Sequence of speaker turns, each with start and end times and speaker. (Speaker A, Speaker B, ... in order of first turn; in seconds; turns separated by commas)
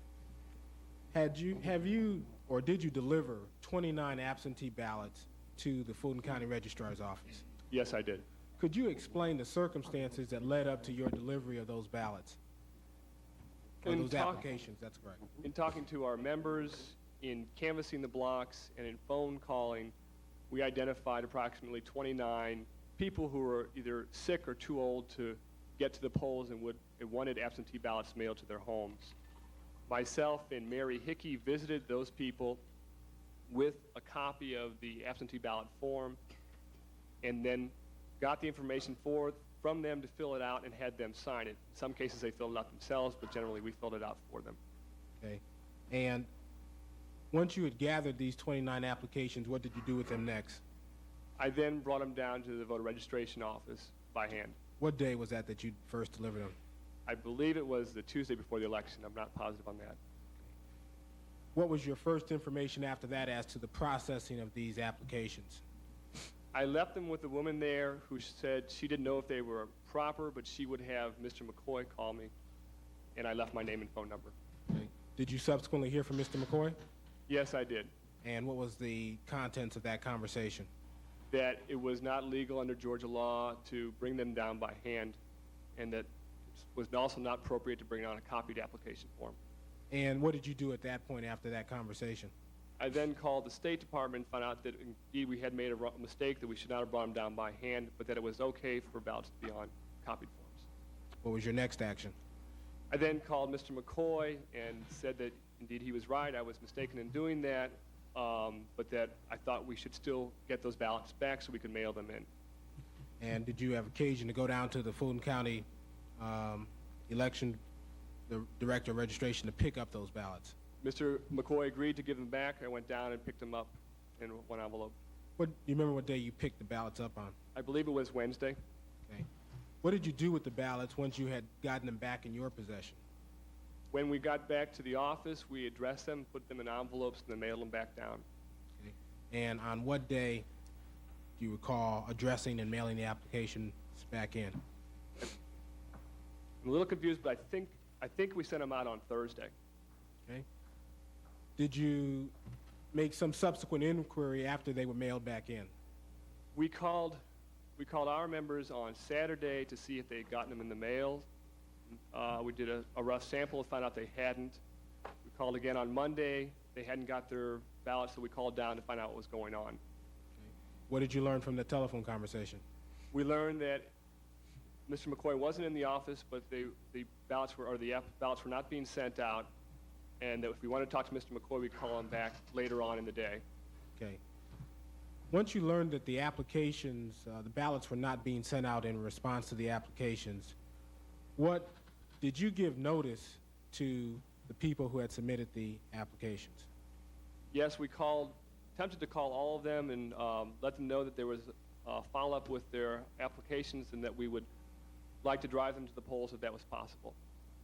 Speaker A: 1.1-7.4, Speaker B: 7.7-8.2, Speaker A: 8.6-12.4, Speaker A: 13.8-15.2, Speaker B: 13.8-14.4, Speaker B: 15.4-19.9, Speaker B: 20.5-29.1, Speaker B: 29.9-32.6, Speaker B: 33.5-36.2, Speaker B: 37.2-44.6, Speaker A: 45.2-46.3, Speaker A: 47.3-50.6, Speaker B: 51.4-54.6, Speaker A: 54.8-56.5, Speaker B: 57.0-60.0, Speaker A: 61.5-65.6, Speaker B: 66.5-72.3, Speaker B: 73.2-74.3, Speaker A: 74.7-76.8, Speaker B: 77.3-77.9, Speaker A: 78.2-80.7, Speaker B: 81.3-85.2, Speaker B: 85.8-89.4, Speaker A: 89.9-92.3, Speaker B: 92.8-100.7, Speaker A: 101.2-102.2, Speaker B: 102.9-112.3, Speaker A: 113.2-115.7, Speaker A: 116.2-117.6, Speaker A: 118.3-120.5, Speaker B: 120.8-125.0, Speaker A: 125.4-127.4, Speaker B: 127.5-128.6, Speaker A: 129.8-133.0, Speaker B: 133.9-138.2, Speaker A: 138.8-140.4, Speaker A: 141.4-144.6, Speaker B: 146.6-149.5, Speaker A: 151.6-152.3, Speaker A: 152.9-155.7, Speaker B: 156.5-157.2, Speaker B: 157.8-161.3, Speaker B: 162.1-164.6, Speaker B: 165.2-169.8, Speaker A: 170.4-172.6, Speaker B: 173.1-173.9, Speaker B: 174.9-179.5, Speaker B: 180.2-183.4, Speaker A: 185.3-190.6, Speaker A: 191.4-196.7, Speaker B: 197.5-204.5, Speaker B: 205.2-207.2